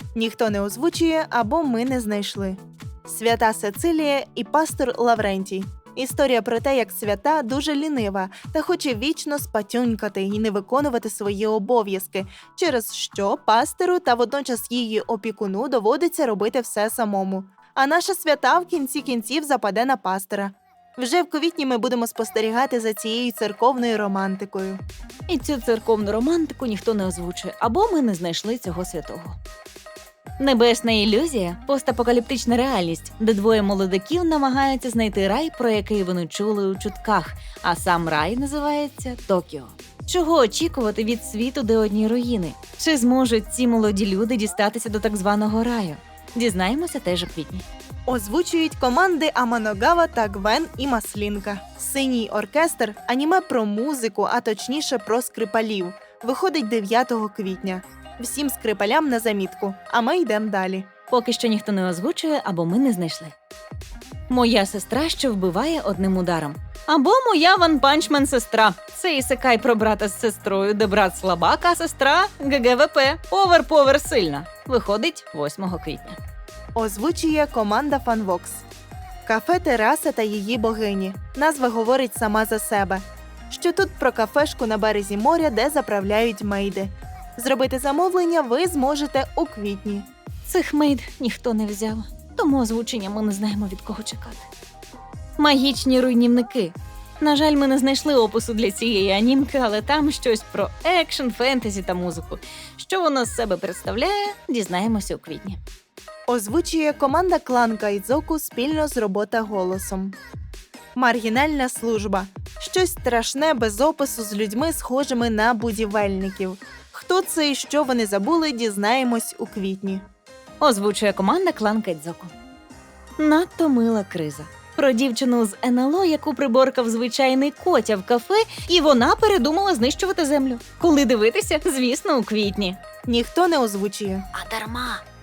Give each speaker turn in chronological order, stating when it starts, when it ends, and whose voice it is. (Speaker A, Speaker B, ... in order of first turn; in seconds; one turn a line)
Speaker A: 0.1-24.8
Speaker B: 25.3-29.4
Speaker B: 30.4-47.6
Speaker A: 48.1-60.9
Speaker B: 61.1-63.3
Speaker B: 64.3-76.2
Speaker A: 76.8-78.7
Speaker A: 79.2-90.1
Speaker B: 90.5-94.5
Speaker B: 95.4-105.6
Speaker A: 106.3-110.2
Speaker A: 111.0-120.0
Speaker B: 120.6-122.3
Speaker B: 123.2-132.8
Speaker A: 133.1-134.3
Speaker B: 134.3-135.0